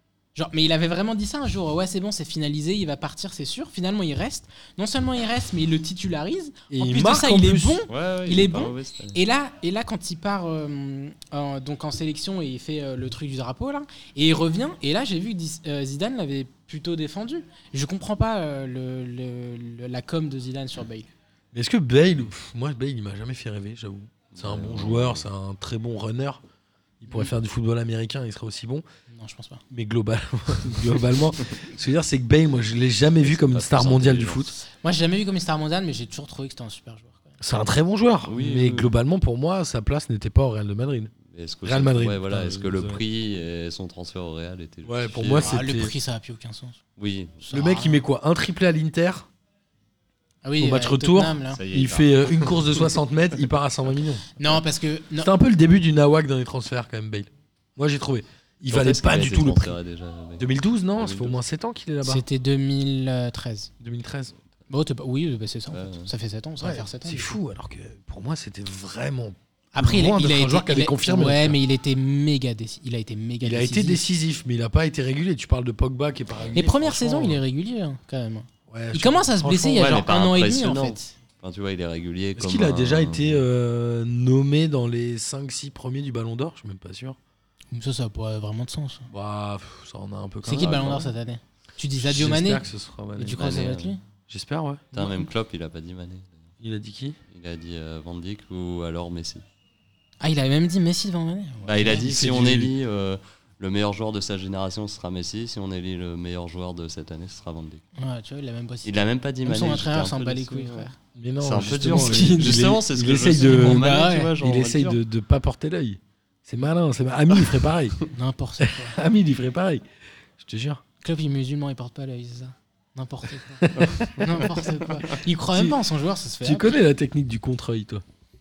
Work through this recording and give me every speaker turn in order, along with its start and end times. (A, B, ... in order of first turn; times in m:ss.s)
0:00.3-0:21.1 A
0:06.7-0:07.8 B
0:07.9-0:09.2 C
0:21.5-0:26.4 B
0:24.3-0:25.2 C
0:27.0-0:28.8 B
0:29.1-0:29.6 A
0:29.7-0:34.6 B
0:33.2-0:34.4 C
0:34.8-0:37.4 A
0:37.4-0:43.0 B
0:38.2-0:38.9 C
0:41.2-0:45.6 C
0:44.8-0:45.9 B
0:45.4-0:46.8 A
0:47.0-0:47.5 C
0:47.4-0:48.0 A
0:47.5-0:49.3 B
0:50.4-0:51.6 A
0:50.6-0:54.4 B
0:51.5-0:52.8 C
0:54.4-0:55.3 A
0:55.2-0:59.8 B
0:58.7-1:01.4 C
1:00.4-1:02.2 B
1:02.0-1:03.7 A
1:03.8-1:04.3 B
1:04.7-1:07.4 A
1:05.7-1:06.1 C
1:06.6-1:11.6 B
1:09.7-1:14.0 A
1:13.4-1:17.4 B
1:16.5-1:21.1 A
1:18.7-1:19.8 B
1:19.6-1:23.4 C
1:22.4-1:27.2 B
1:27.7-1:29.1 A
1:29.1-1:31.1 B
1:30.4-1:32.6 A
1:30.5-1:31.0 C
1:32.0-1:33.4 B
1:33.2-1:34.0 A
1:33.3-1:34.0 C
1:34.3-1:34.9 B
1:34.9-1:35.2 A
1:34.9-1:36.4 C
1:36.6-1:37.2 B
1:37.3-1:39.4 C
1:40.2-1:42.1 A
1:41.6-1:47.8 C
1:41.8-1:42.7 B
1:48.0-1:50.9 A
1:48.8-1:55.0 C
1:51.1-1:53.9 B
1:51.8-1:52.7 A
1:53.4-1:54.3 A
1:54.4-1:58.0 B
1:58.1-1:59.0 A
1:58.6-1:59.8 B
2:00.4-2:00.8 B
2:01.0-2:06.8 A
2:03.6-2:04.4 B
2:05.5-2:05.8 B
2:06.4-2:08.0 B